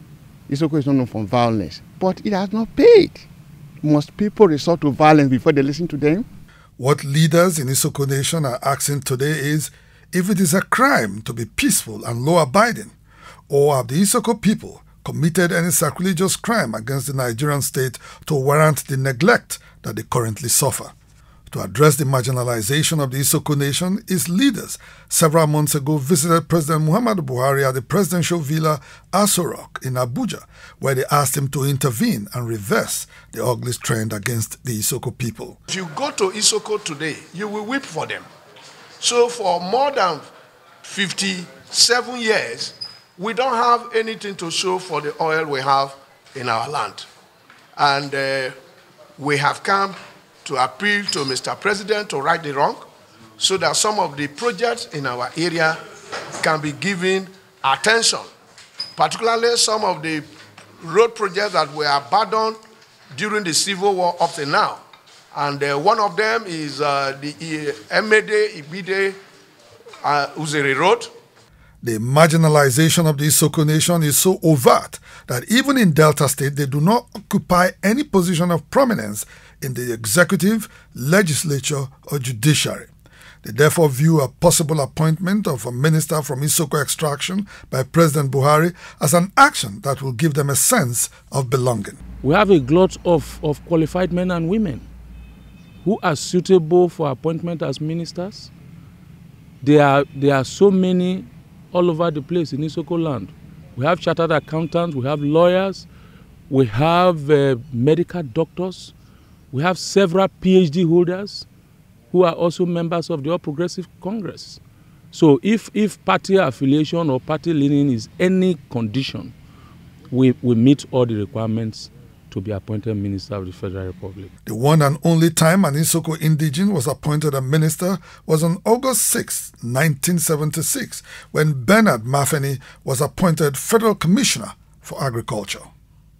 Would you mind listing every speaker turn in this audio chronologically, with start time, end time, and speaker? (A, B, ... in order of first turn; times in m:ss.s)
0:00.5-0:03.3 A
0:03.8-0:06.3 A
0:06.8-0:12.9 B
0:13.5-0:20.9 B
0:21.5-0:35.6 B
0:35.7-0:38.3 C
0:39.0-0:40.3 C
0:40.8-0:47.1 C
0:47.8-0:48.6 C
0:49.2-0:52.9 C
0:53.4-0:55.8 C
0:56.4-0:58.3 C
0:59.0-1:00.3 C
1:00.8-1:02.6 C
1:03.1-1:04.8 C
1:05.3-1:09.2 C
1:10.0-1:11.1 C
1:11.8-1:22.9 B
1:23.4-1:32.0 B
1:32.2-1:34.9 D
1:35.8-1:38.5 D
1:39.6-1:45.9 D
1:46.5-1:48.9 D
1:49.5-1:51.5 D
1:52.1-1:54.6 D
1:55.1-1:59.3 D
2:00.1-2:04.3 D
2:04.5-2:15.7 B